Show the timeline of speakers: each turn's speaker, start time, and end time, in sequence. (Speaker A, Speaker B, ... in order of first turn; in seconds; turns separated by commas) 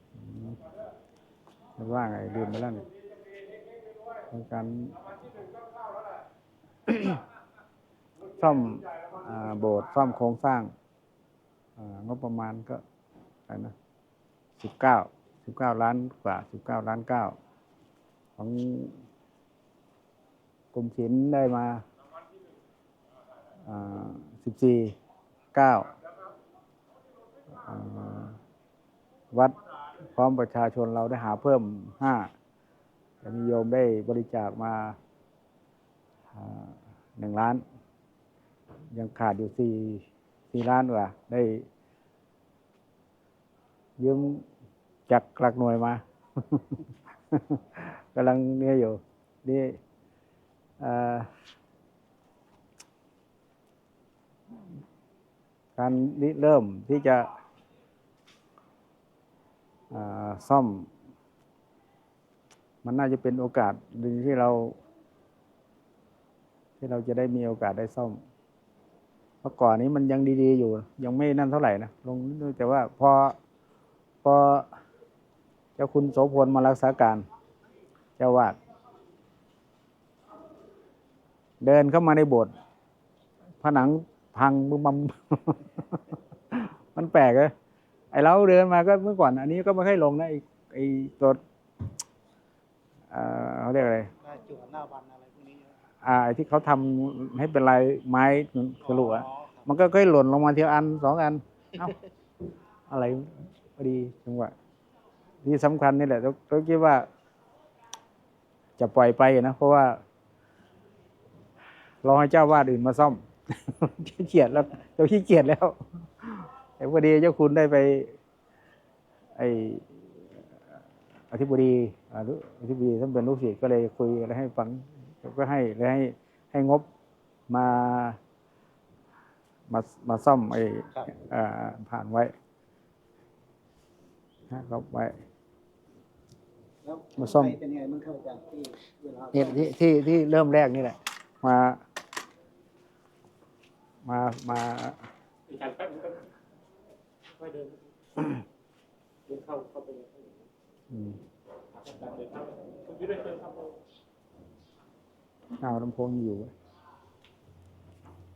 Speaker A: 0.2-0.6, Speaker A: 1.8-2.9, Speaker A: 4.3-5.0, Speaker A: 6.9-7.2, Speaker A: 8.4-10.7, Speaker A: 11.8-12.8, Speaker A: 13.5-13.7, Speaker A: 14.6-17.4, Speaker A: 18.4-19.0, Speaker A: 20.7-21.8, Speaker A: 23.6-24.9, Speaker A: 25.5-25.9, Speaker A: 27.5-28.4, Speaker A: 29.3-32.3, Speaker A: 33.2-35.0, Speaker A: 36.3-37.6, Speaker A: 38.9-41.7, Speaker A: 44.0-44.5, Speaker A: 45.1-49.8, Speaker A: 50.8-51.3, Speaker A: 55.8-57.3, Speaker A: 59.9-60.9, Speaker A: 62.8-64.8, Speaker A: 66.8-68.2, Speaker A: 69.4-73.3, Speaker A: 74.2-74.7, Speaker A: 75.8-77.2, Speaker A: 78.2-78.5, Speaker A: 81.6-82.5, Speaker A: 83.6-87.5, Speaker A: 88.1-91.4, Speaker A: 93.1-94.1, Speaker B: 94.2-95.7, Speaker A: 96.0-101.9, Speaker B: 98.8-99.7, Speaker A: 102.9-104.5, Speaker A: 105.4-107.1, Speaker A: 108.8-110.0, Speaker A: 112.0-118.2, Speaker A: 119.3-120.2, Speaker A: 121.3-126.8, Speaker A: 127.5-128.2, Speaker A: 129.7-132.3, Speaker A: 134.5-135.2, Speaker B: 136.8-139.7, Speaker A: 137.2-137.6, Speaker A: 139.3-141.8, Speaker A: 144.0-145.0, Speaker C: 145.5-146.2, Speaker C: 147.4-148.4, Speaker C: 149.2-150.5, Speaker A: 150.9-151.2, Speaker C: 151.7-153.7, Speaker A: 155.6-156.5